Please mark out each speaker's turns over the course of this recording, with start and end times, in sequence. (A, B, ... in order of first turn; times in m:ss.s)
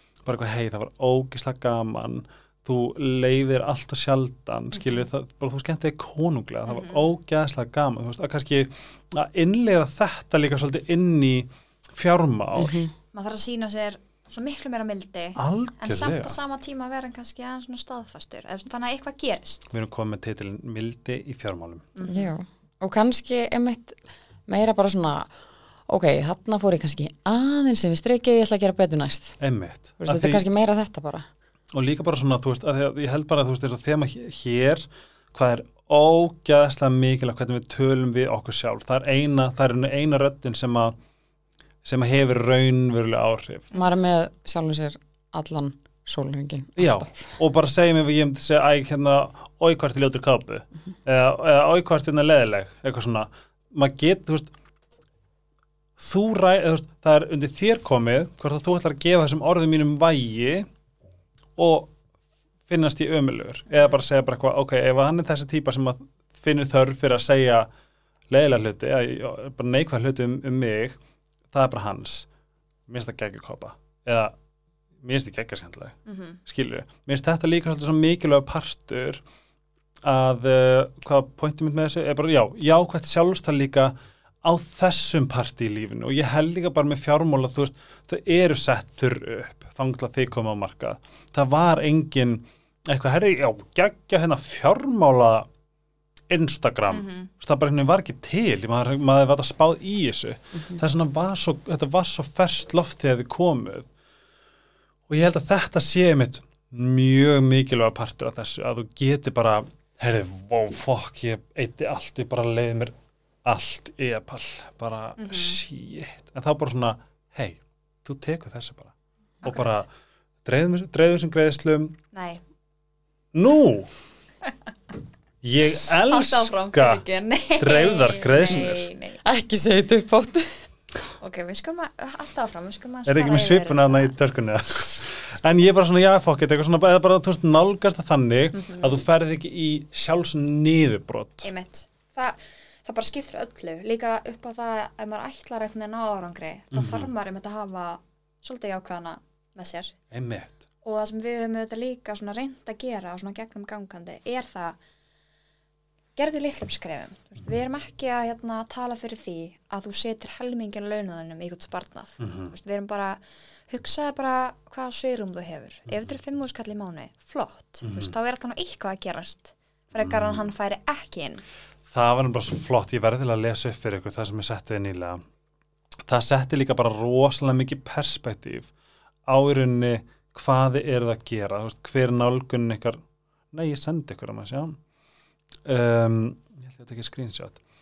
0:00.2-0:12.8 A
0:06.7-0:07.0 B
0:12.6-0:12.9 C
0:13.1-0:19.6 B
0:15.4-0:16.4 A
0:19.7-0:21.9 A
0:21.9-0:22.3 B
0:22.0-0:25.3 C
0:25.9-0:29.4 C
0:29.4-0:30.4 A
0:30.0-0:31.3 C
0:31.7-0:41.0 A
0:41.8-0:43.7 A
0:43.7-0:47.3 C
0:46.8-0:54.5 A
0:56.0-1:00.7 A
1:01.6-1:01.9 A
1:02.7-1:07.7 A
1:08.3-1:11.0 A
1:11.5-1:12.3 A
1:12.9-1:14.3 A
1:15.0-1:19.2 A
1:16.1-1:16.4 B
1:20.0-1:35.5 A
1:36.3-1:43.9 A
1:36.9-1:37.3 B
1:45.1-1:59.9 A
1:55.2-1:55.6 B
1:59.4-1:59.8 B
2:00.4-2:02.0 A
2:02.1-2:02.4 B
2:03.3-2:03.9 A
2:05.4-2:07.0 A
2:05.8-2:09.2 B
2:07.6-2:08.9 A
2:09.2-2:10.6 C
2:11.2-2:14.1 B
2:13.0-2:21.5 A
2:18.6-2:19.0 B
2:21.4-2:30.0 B
2:26.7-2:27.1 A
2:30.1-2:30.6 A
2:30.8-2:34.8 B
2:36.2-2:51.4 B
2:42.2-2:42.5 A
2:47.8-2:48.1 A
2:50.0-2:50.5 A
2:51.8-2:55.2 A
2:56.0-2:58.7 A
2:59.2-3:03.0 A
3:03.5-3:04.8 A
3:05.6-3:07.6 A